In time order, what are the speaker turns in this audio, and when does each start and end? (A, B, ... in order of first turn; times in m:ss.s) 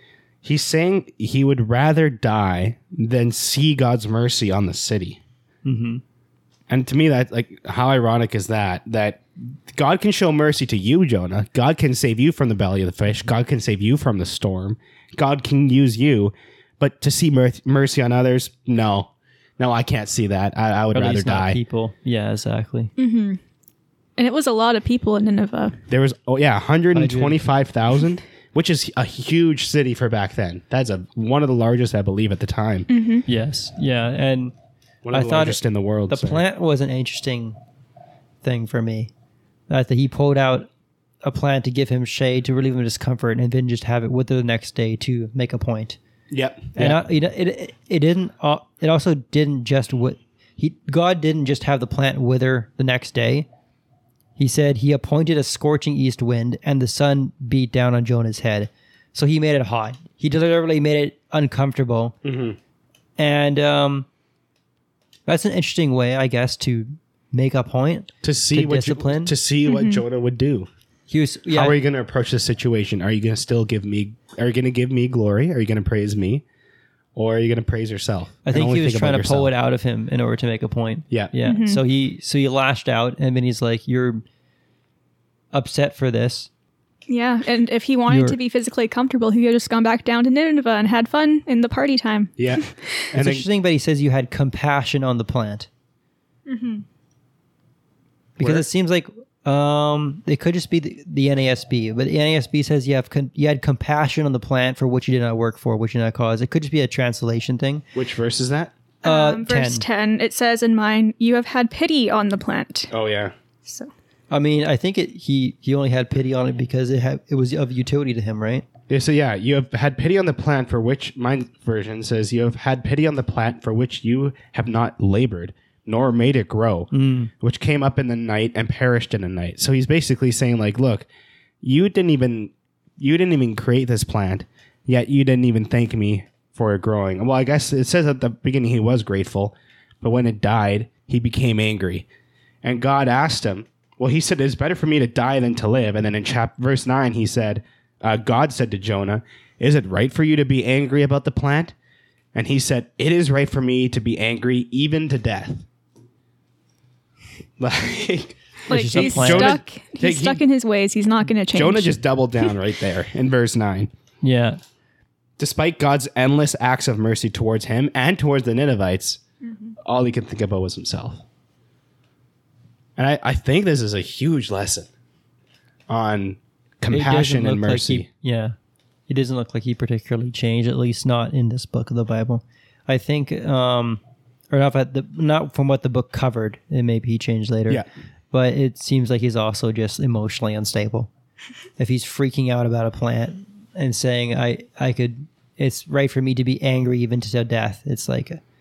0:00.4-0:05.2 A
0:05.6-0:06.0 B
0:06.7-0:21.6 A
0:20.9-0:22.9 B
0:23.0-0:23.4 C
0:24.2-0:25.8 C
0:25.9-0:32.9 A
0:26.9-0:27.4 B
0:32.9-0:33.2 C
0:33.3-0:34.6 B
0:35.0-0:36.4 A
0:35.1-0:37.6 B
0:38.4-0:39.1 B
0:39.7-0:40.7 B
0:41.2-0:46.0 B
0:46.3-0:47.0 A
0:46.8-0:53.5 B
0:54.4-1:02.2 B
1:02.2-1:02.6 A
1:03.2-1:04.1 B
1:05.3-1:09.3 B
1:08.2-1:10.7 A
1:09.7-1:10.0 C
1:11.1-1:11.8 B
1:11.5-1:16.4 A
1:17.2-1:19.5 A
1:18.5-1:24.2 B
1:21.4-1:21.8 C
1:25.5-1:26.5 B
1:27.1-1:33.1 C
1:28.1-1:28.4 B
1:32.4-1:33.4 A
1:33.1-1:35.7 B
1:36.5-1:36.8 C
1:38.4-1:47.8 B
1:38.4-1:38.6 A
1:48.0-1:48.7 A
1:49.0-1:49.8 B
1:49.0-1:52.9 C
1:52.9-1:53.3 A
1:54.3-1:58.6 B
1:58.9-2:11.1 A
2:06.9-2:07.3 B
2:11.6-2:22.1 A
2:22.6-2:31.8 A
2:32.3-2:35.6 A
2:37.6-2:40.4 A
2:38.7-2:39.6 B
2:38.7-2:42.5 C
2:41.5-2:43.9 A
2:44.2-2:44.6 B
2:45.4-2:49.2 A
2:49.5-2:49.8 C
2:49.8-2:51.2 A
2:53.0-2:54.9 A
2:55.9-2:58.1 A
2:56.9-2:58.6 B
2:59.1-3:11.1 B
3:11.8-3:18.4 B